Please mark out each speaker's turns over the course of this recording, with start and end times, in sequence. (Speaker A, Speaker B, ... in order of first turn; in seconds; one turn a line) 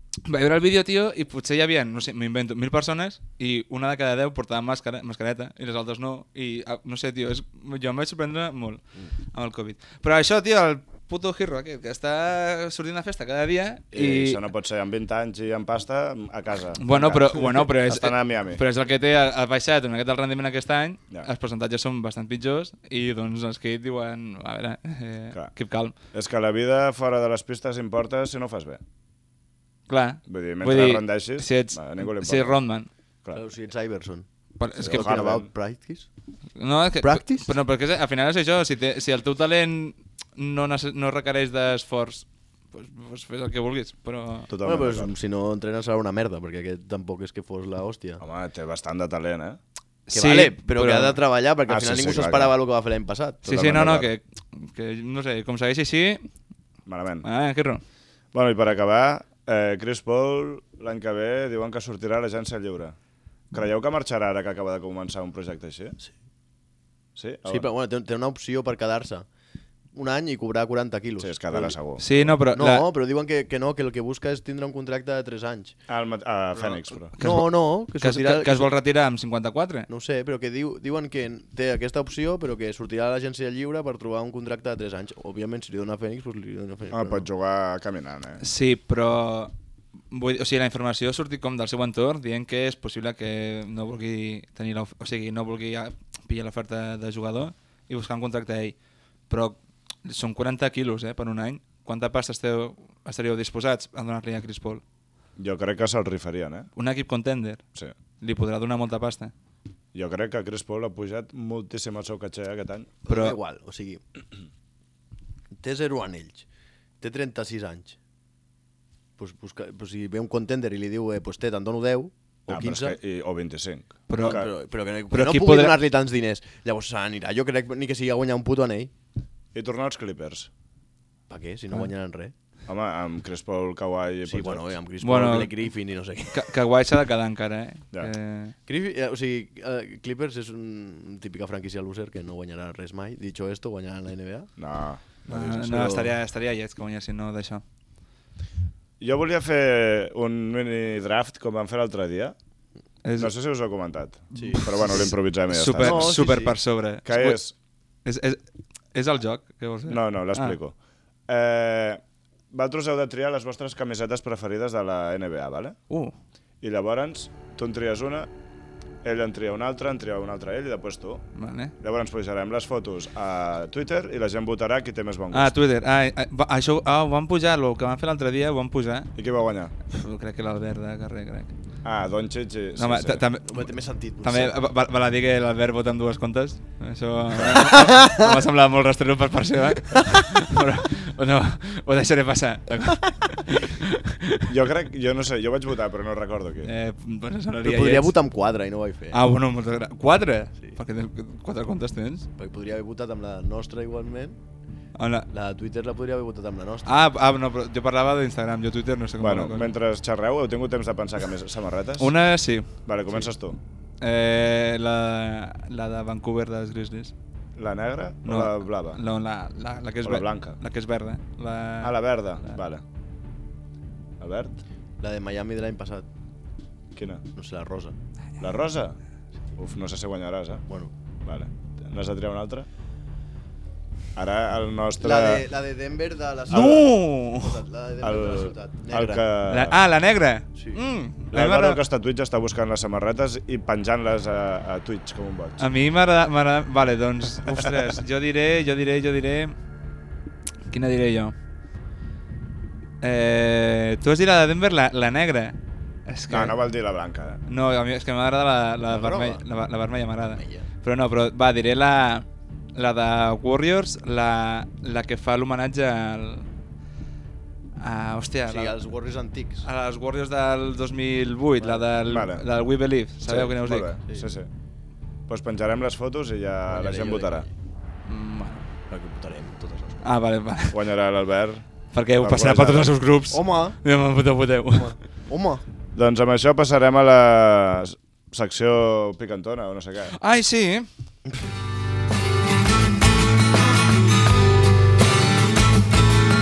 Speaker A: 0.3-14.4
Speaker B: 13.9-18.6
Speaker A: 16.8-25.9
Speaker B: 26.1-28.8
Speaker A: 29.9-32.9
Speaker B: 30.3-32.6
Speaker C: 33.3-34.3
Speaker A: 34.6-35.2
Speaker B: 34.8-35.5
Speaker C: 34.8-36.1
Speaker A: 36.6-44.5
Speaker C: 37.0-37.5
Speaker B: 44.5-45.1
Speaker C: 44.6-48.2
Speaker B: 48.2-49.6
Speaker A: 50.1-51.2
Speaker C: 50.1-53.7
Speaker B: 51.7-52.5
Speaker A: 53.5-56.3
Speaker B: 53.5-54.1
Speaker B: 56.9-57.3
Speaker A: 57.2-57.8
Speaker B: 58.3-63.0
Speaker B: 63.5-66.0
Speaker B: 67.2-67.7
Speaker C: 67.5-69.3
Speaker C: 69.9-75.7
Speaker B: 71.2-72.1
Speaker A: 72.0-72.8
Speaker B: 75.9-77.1
Speaker A: 76.7-79.9
Speaker C: 77.2-78.7
Speaker C: 79.9-87.3
Speaker B: 86.9-88.4
Speaker A: 88.4-89.5
Speaker A: 90.1-98.8
Speaker A: 99.3-104.8
Speaker B: 105.4-106.7
Speaker A: 106.8-107.6
Speaker A: 108.2-109.3
Speaker B: 109.9-113.0
Speaker C: 113.1-114.0
Speaker A: 113.1-113.4
Speaker C: 115.6-116.5
Speaker C: 117.0-118.0
Speaker C: 119.2-123.0
Speaker B: 122.5-124.5
Speaker A: 124.1-124.5
Speaker C: 124.2-128.9
Speaker A: 125.1-125.8
Speaker B: 129.5-130.5
Speaker C: 131.3-132.3
Speaker B: 132.7-134.7
Speaker C: 134.3-136.4
Speaker A: 135.0-135.6
Speaker A: 136.3-138.6
Speaker C: 138.7-144.5
Speaker B: 144.6-145.5
Speaker C: 145.3-146.1
Speaker A: 145.3-147.6
Speaker B: 149.0-152.3
Speaker A: 153.0-153.3
Speaker B: 153.2-156.2
Speaker C: 154.3-155.1
Speaker A: 154.4-157.4
Speaker C: 155.8-156.5
Speaker B: 157.1-157.5
Speaker A: 158.1-158.4
Speaker A: 158.9-160.6
Speaker B: 159.9-160.8
Speaker B: 161.3-165.8
Speaker B: 166.6-168.3
Speaker B: 169.0-171.2
Speaker A: 171.4-171.7
Speaker B: 171.8-175.5
Speaker A: 175.3-179.1
Speaker B: 179.2-179.7
Speaker A: 179.9-181.5
Speaker B: 181.8-183.2
Speaker A: 182.8-194.6
Speaker C: 183.5-184.5
Speaker C: 187.5-188.2
Speaker B: 194.5-196.7
Speaker A: 196.6-198.1
Speaker C: 197.6-199.2
Speaker A: 199.1-202.3
Speaker C: 202.4-204.4
Speaker A: 205.0-205.3
Speaker C: 205.3-207.0
Speaker A: 206.9-209.7
Speaker B: 209.2-212.1
Speaker A: 212.0-212.7
Speaker B: 212.8-213.6
Speaker A: 214.0-217.1
Speaker B: 217.6-219.0
Speaker A: 218.3-222.5
Speaker B: 220.0-220.6
Speaker B: 221.8-222.8
Speaker B: 224.2-224.6
Speaker C: 225.0-226.1
Speaker B: 226.9-227.2
Speaker C: 227.3-227.9
Speaker B: 228.4-229.0
Speaker B: 229.6-230.7
Speaker B: 231.2-232.7
Speaker B: 234.2-235.4
Speaker C: 235.0-239.3
Speaker A: 236.5-237.6
Speaker B: 236.5-236.8
Speaker B: 238.0-239.8
Speaker A: 239.5-241.8
Speaker B: 241.3-245.7
Speaker A: 245.6-249.6
Speaker A: 250.7-251.3
Speaker A: 253.0-256.6
Speaker B: 256.3-257.4
Speaker A: 257.5-266.5
Speaker C: 258.9-259.4
Speaker C: 260.4-260.7
Speaker A: 267.8-268.8
Speaker C: 268.5-269.7
Speaker A: 269.6-274.0
Speaker C: 271.6-271.9
Speaker B: 272.1-272.4
Speaker B: 273.3-274.5
Speaker B: 275.3-277.5
Speaker C: 276.7-277.5
Speaker A: 278.1-278.7
Speaker C: 278.9-280.1
Speaker A: 280.0-280.8
Speaker B: 280.7-281.7
Speaker A: 281.9-285.0
Speaker B: 282.2-282.9
Speaker C: 283.3-283.8
Speaker C: 284.7-285.6
Speaker B: 285.9-290.1
Speaker A: 290.2-290.9